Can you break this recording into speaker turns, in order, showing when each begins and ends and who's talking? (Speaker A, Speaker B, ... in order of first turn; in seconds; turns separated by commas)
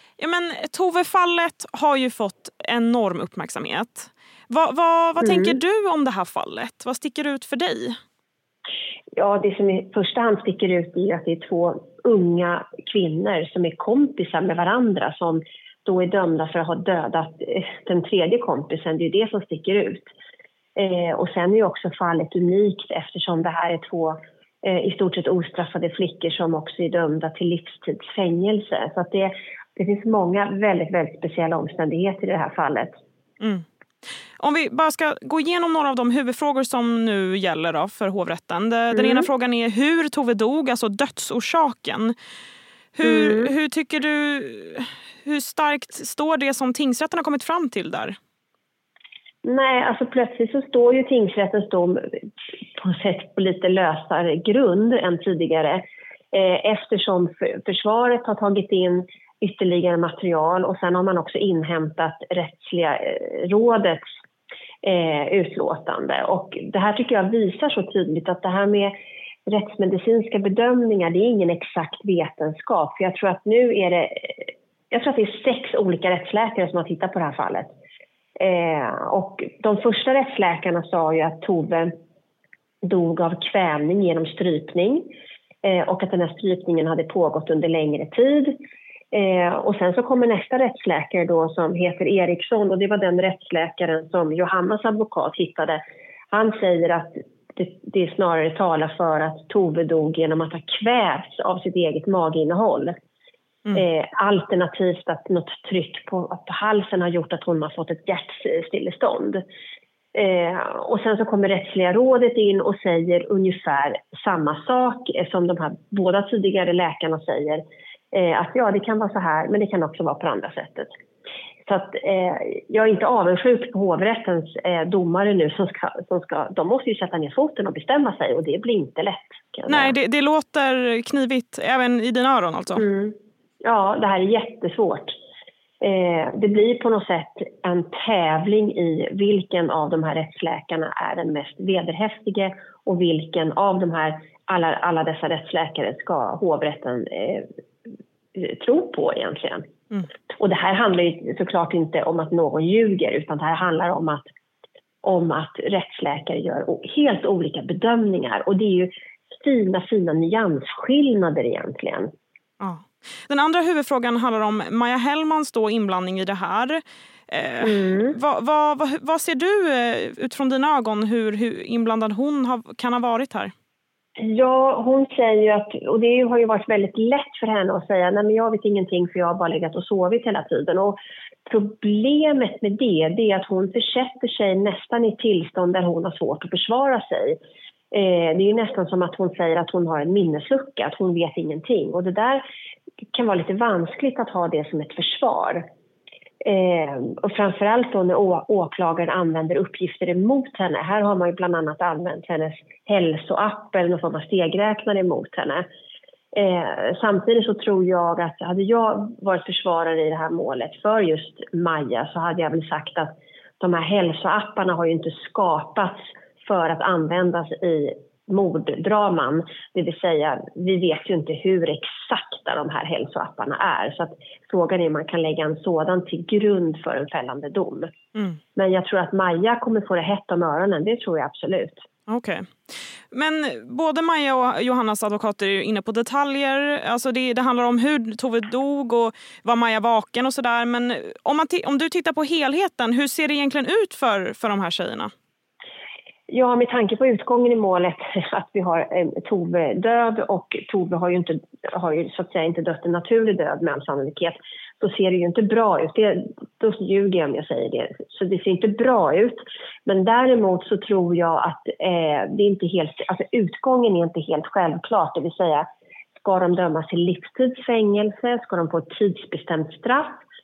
Speaker A: 0.2-8.0, Speaker B: 5.2-5.6, Speaker B: 9.2-20.1, Speaker B: 20.8-32.9, Speaker A: 34.4-42.1, Speaker B: 38.9-39.3, Speaker A: 43.0-48.2, Speaker B: 43.0-43.5, Speaker B: 49.4-52.0, Speaker B: 52.8-64.0, Speaker B: 64.8-68.9, Speaker B: 69.5-77.7, Speaker B: 78.4-81.9, Speaker B: 82.8-85.1, Speaker B: 85.6-88.6, Speaker B: 89.1-95.8, Speaker B: 96.3-102.9, Speaker B: 103.7-109.4, Speaker B: 110.2-120.9, Speaker B: 121.7-129.9, Speaker A: 129.7-132.8, Speaker B: 132.8-135.1, Speaker B: 135.8-147.5, Speaker B: 148.4-149.7, Speaker B: 150.4-154.3, Speaker B: 155.0-162.1, Speaker A: 162.6-173.5, Speaker B: 167.6-168.2, Speaker B: 174.2-187.4, Speaker B: 187.9-192.4, Speaker B: 193.1-195.6, Speaker B: 196.4-205.7, Speaker B: 206.3-227.9, Speaker B: 228.6-231.8, Speaker A: 232.1-232.5, Speaker A: 233.1-245.1, Speaker B: 246.3-265.7, Speaker B: 266.2-270.2